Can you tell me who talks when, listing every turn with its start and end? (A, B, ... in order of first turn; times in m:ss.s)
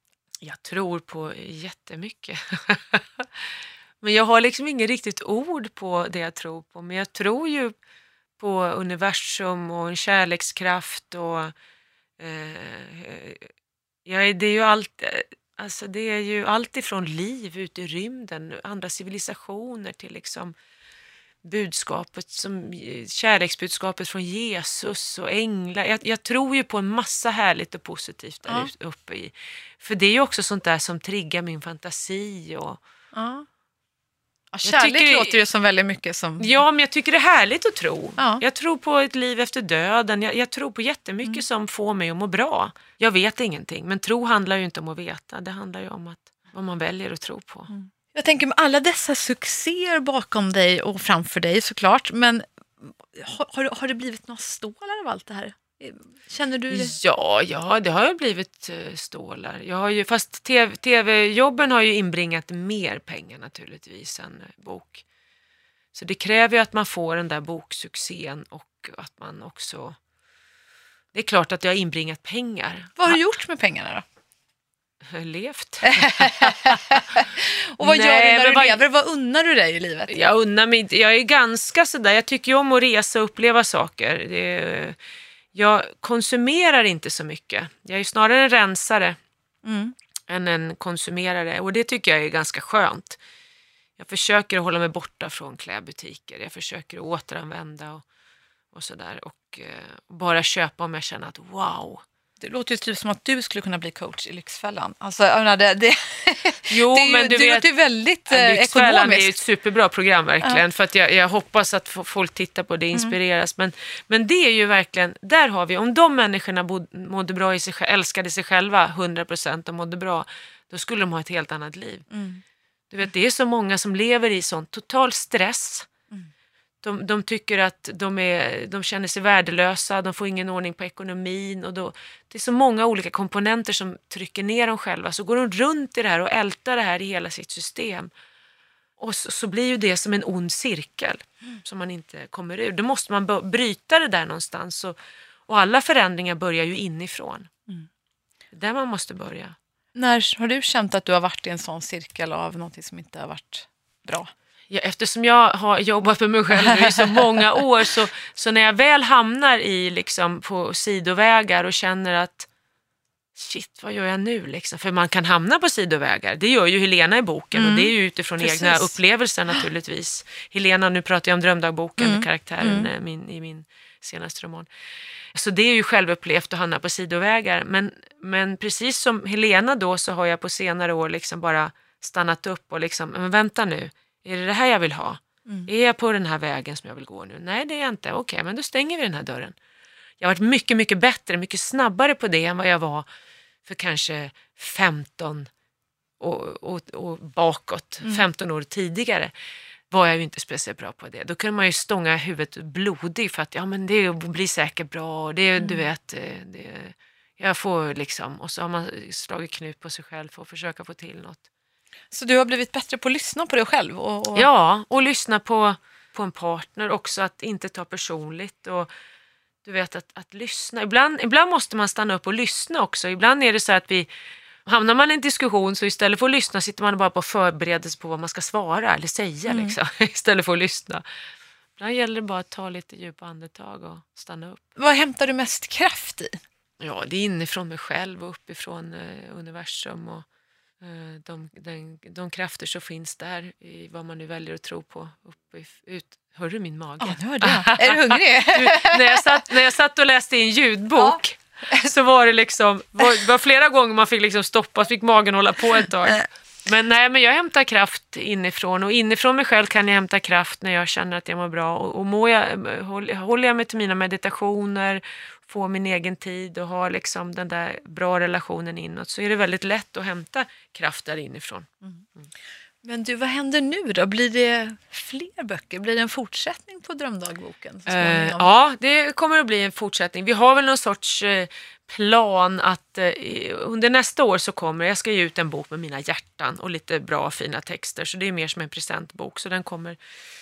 0:00.4-0:03.4 A
0:04.0-0:07.8 A
0:08.4-0:11.5 A
0:12.2-0:13.5 A
0:14.0-0:20.6 A
0:21.4-0:32.8 A
0:33.1-0:33.5 B
0:34.5-0:36.6 B
0:34.6-0:35.4 A
0:36.4-0:47.7 A
0:47.7-0:57.0 B
0:56.7-1:05.0 A
1:05.9-1:10.0 A
1:11.1-1:13.2 A
1:13.0-1:14.0 B
1:15.1-1:17.0 A
1:15.8-1:20.2 B
1:17.8-1:18.8 A
1:20.1-1:25.0 A
1:25.5-1:29.2 A
1:29.6-1:30.0 B
1:30.3-1:33.2 A
1:34.0-1:38.0 A
1:38.7-1:42.0 A
1:42.4-1:49.3 B
1:46.7-1:47.7 A
1:48.3-2:02.1 A
2:02.1-2:02.4 B
2:02.9-2:05.9 A
2:06.8-2:18.1 A
2:19.0-2:27.5 A
2:28.5-2:29.6 A
2:30.0-2:34.3 B
2:34.7-2:42.5 A
2:43.4-2:54.7 A
2:47.5-2:49.0 B
2:52.0-2:52.9 B
2:55.3-3:09.6 A
3:10.2-3:13.1 A
3:13.6-3:15.5 A
3:16.2-3:19.3 A
3:19.9-3:31.4 A
3:32.1-3:34.5 B
3:34.4-3:38.9 A
3:39.6-3:44.1 A
3:44.6-3:51.0 A
3:49.5-3:49.8 B
3:51.8-3:54.6 A
3:54.8-3:56.4 B
3:56.8-4:00.3 A
4:00.8-4:31.7 A
4:07.0-4:09.4 B
4:32.8-4:38.5 B
4:37.9-4:50.0 A